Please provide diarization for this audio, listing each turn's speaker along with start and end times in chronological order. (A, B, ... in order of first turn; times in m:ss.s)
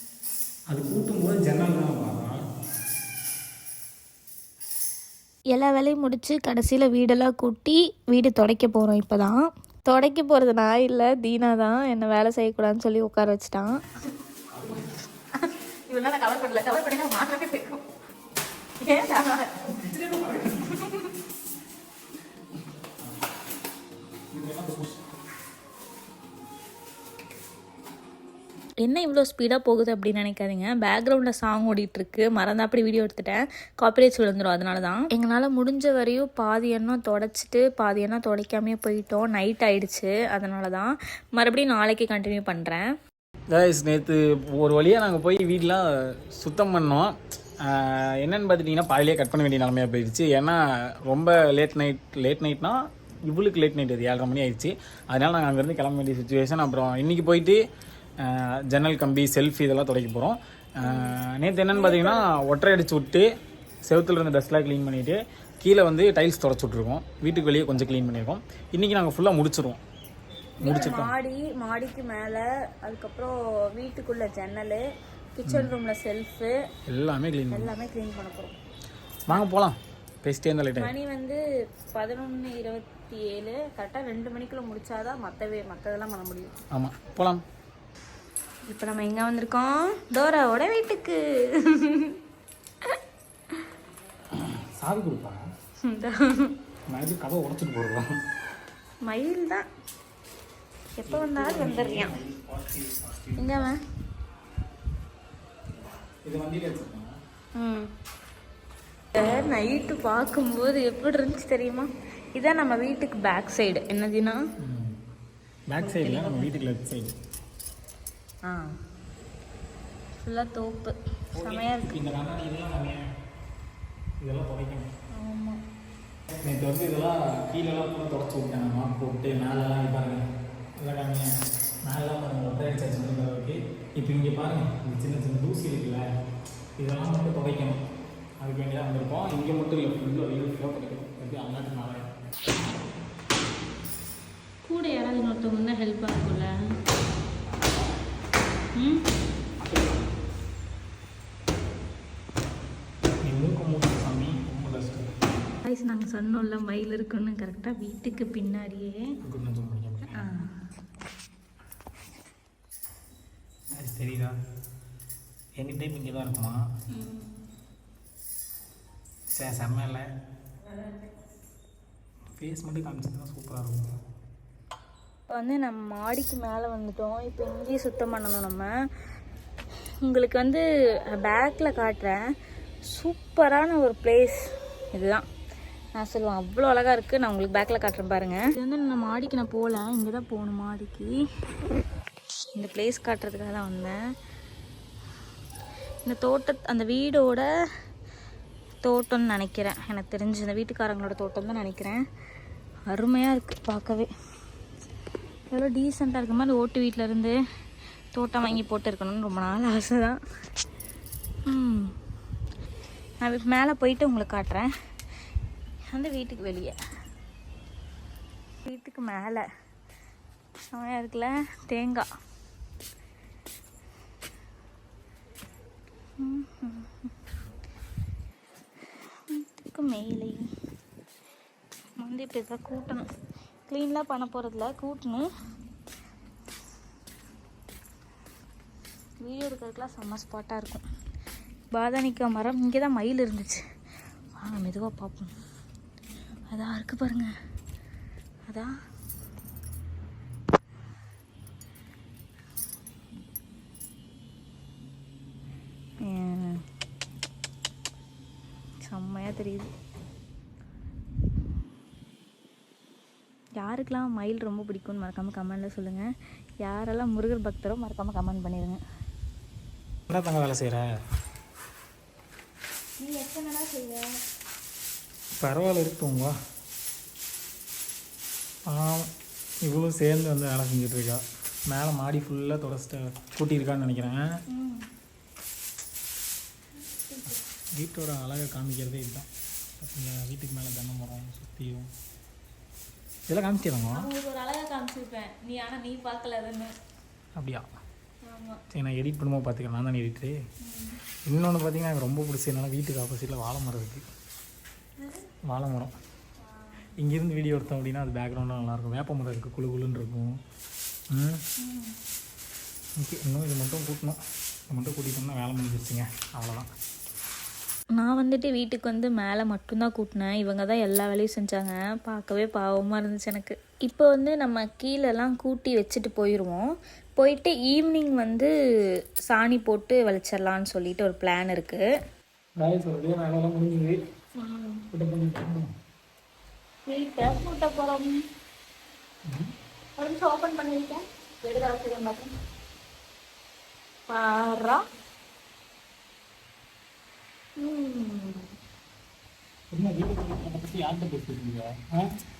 0:00.7-0:02.4 A
0:05.5-0:13.7 B
0:15.3-0:17.8 B
0:18.8-0:19.7 B
0:19.7-0:20.8 A
0:20.6-0:21.1 B
0:24.3-0:25.0 A
0:28.8-0:42.9 B
0:43.5-0:52.8 A
0:53.3-0:57.6 A
0:58.2-1:03.3 A
1:00.8-1:01.1 B
1:01.7-1:02.2 B
1:03.8-1:09.8 A
1:10.6-1:11.1 A
1:10.6-1:14.8 B
1:15.4-1:16.5 B
1:15.4-1:15.7 A
1:16.9-1:17.7 A
1:17.5-1:18.5 B
1:19.3-1:20.9 A
1:20.8-1:21.4 B
1:21.9-1:26.6 B
1:26.7-1:27.4 A
1:28.7-1:32.2 B
1:34.3-1:35.4 A
1:35.8-1:36.5 B
1:36.9-1:38.0 A
1:39.0-1:39.6 B
1:41.0-1:42.1 B
1:41.1-1:43.7 A
1:43.4-1:43.8 B
1:46.2-1:47.1 A
1:47.6-1:47.9 B
1:49.1-1:54.4 B
1:54.6-1:54.9 A
1:55.7-1:57.1 A
1:55.8-1:56.5 B
2:00.2-2:01.9 B
2:01.3-2:03.0 A
2:04.2-2:04.9 A
2:05.2-2:05.6 B
2:06.4-2:10.2 A
2:10.8-2:11.3 A
2:11.8-2:16.0 A
2:16.8-2:17.8 A
2:18.4-2:22.1 A
2:24.6-2:26.5 B
2:28.8-2:29.0 B
2:29.6-2:30.2 A
2:33.2-2:35.1 A
2:35.6-2:39.0 B
2:39.2-2:40.4 A
2:40.2-2:40.5 B
2:43.7-2:44.3 A
2:45.6-2:46.6 A
2:46.9-2:47.3 B
2:49.3-2:50.0 A
2:52.4-2:54.0 A
2:55.3-2:58.7 B
3:00.0-3:02.2 B
3:02.9-3:04.4 B
3:04.9-3:05.2 B
3:06.0-3:11.1 B
3:12.6-3:14.0 B
3:16.0-3:17.4 B
3:18.8-3:22.0 B
3:22.9-3:24.1 B
3:25.5-3:27.4 B
3:28.1-3:30.2 B
3:31.5-3:31.9 B
3:33.2-3:34.7 B
3:35.9-3:36.7 B
3:38.6-3:39.4 B
3:40.7-3:42.0 B
3:46.2-3:47.1 B
3:49.3-3:50.4 B
3:52.0-3:53.1 B
3:53.7-3:55.3 B
3:59.2-4:00.8 B
4:01.7-4:03.6 B
4:04.4-4:05.3 B
4:06.5-4:07.3 B
4:16.0-4:16.6 B
4:18.8-4:19.7 B
4:23.6-4:26.1 B
4:26.6-4:28.8 B
4:30.1-4:30.9 A
4:33.0-4:34.1 B
4:35.4-4:36.3 A
4:38.7-4:39.1 A
4:39.6-4:44.2 A
4:44.5-4:44.8 B
4:46.9-4:47.4 B
4:47.7-4:49.3 A
4:49.8-4:51.9 A
4:53.3-4:54.0 A
4:54.0-4:56.7 B
4:57.4-4:57.7 A
4:58.2-4:58.6 B
4:58.7-5:00.3 A
5:00.6-5:01.0 B
5:01.3-5:04.0 A
5:05.0-5:05.2 B
5:05.5-5:05.9 A
5:06.4-5:06.9 B
5:07.0-5:10.3 A
5:11.1-5:11.4 A
5:11.6-5:12.0 B
5:13.0-5:14.2 A
5:14.7-5:16.7 A
5:18.0-5:26.6 B
5:27.2-5:28.5 B
5:29.3-5:31.8 B
5:32.6-5:34.0 A
5:34.4-5:34.8 B
5:34.9-5:35.7 A
5:36.9-5:38.2 B
5:40.0-5:42.3 B
5:44.1-5:44.8 B
5:47.6-5:48.4 B
5:49.7-5:52.1 A